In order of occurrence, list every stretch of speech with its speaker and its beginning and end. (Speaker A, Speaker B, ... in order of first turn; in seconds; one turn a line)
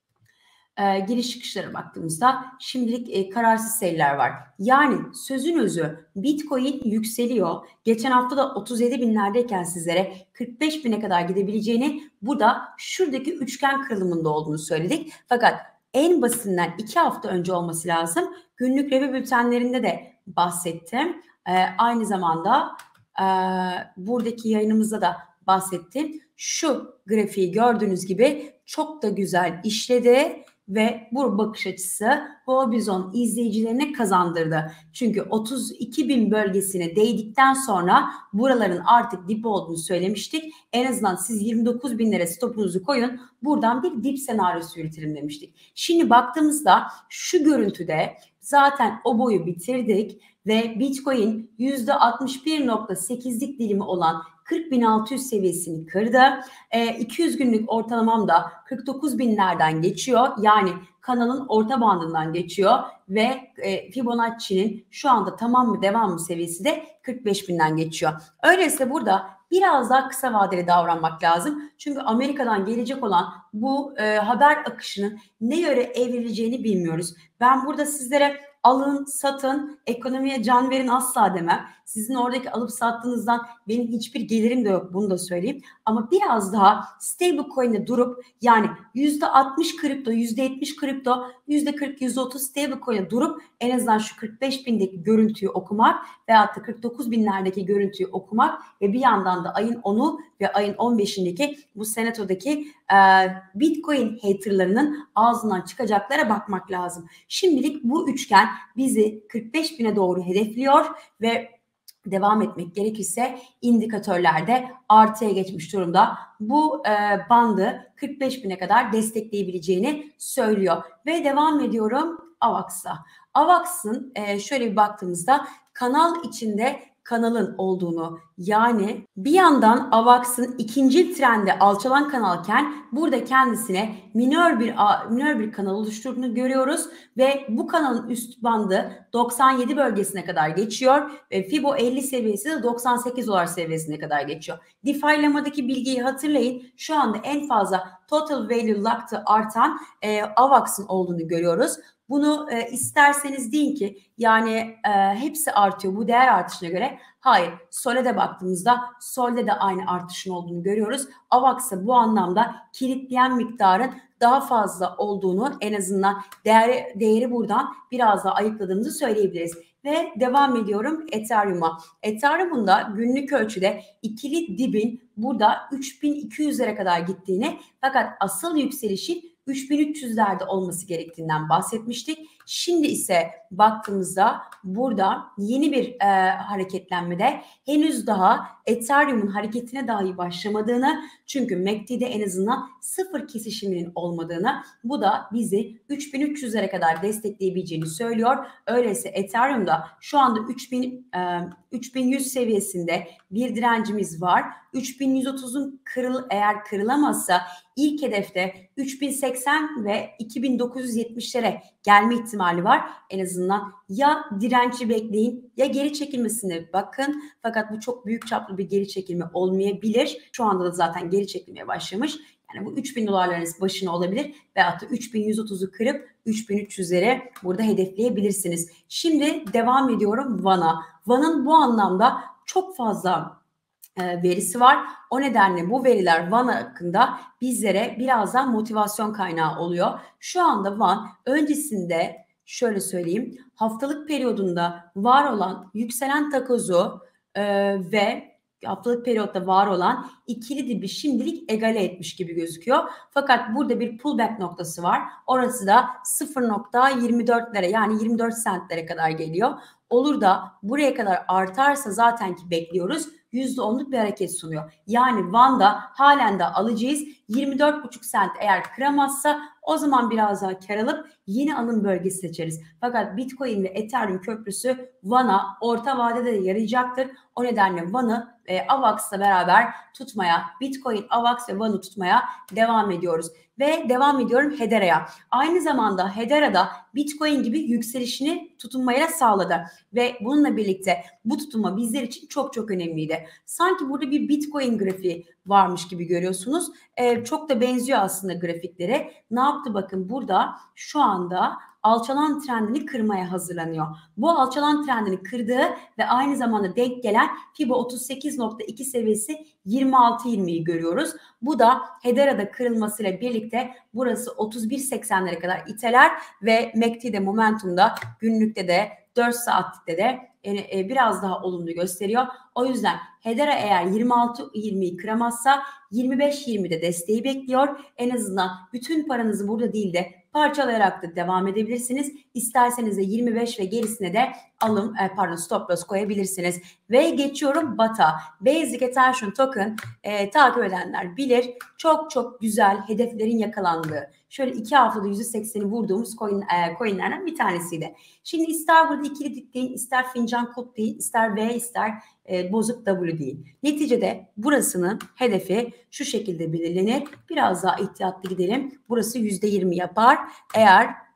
Speaker A: 0.8-111.5
Speaker A: 112.0-233.4
Speaker A: 234.0-361.0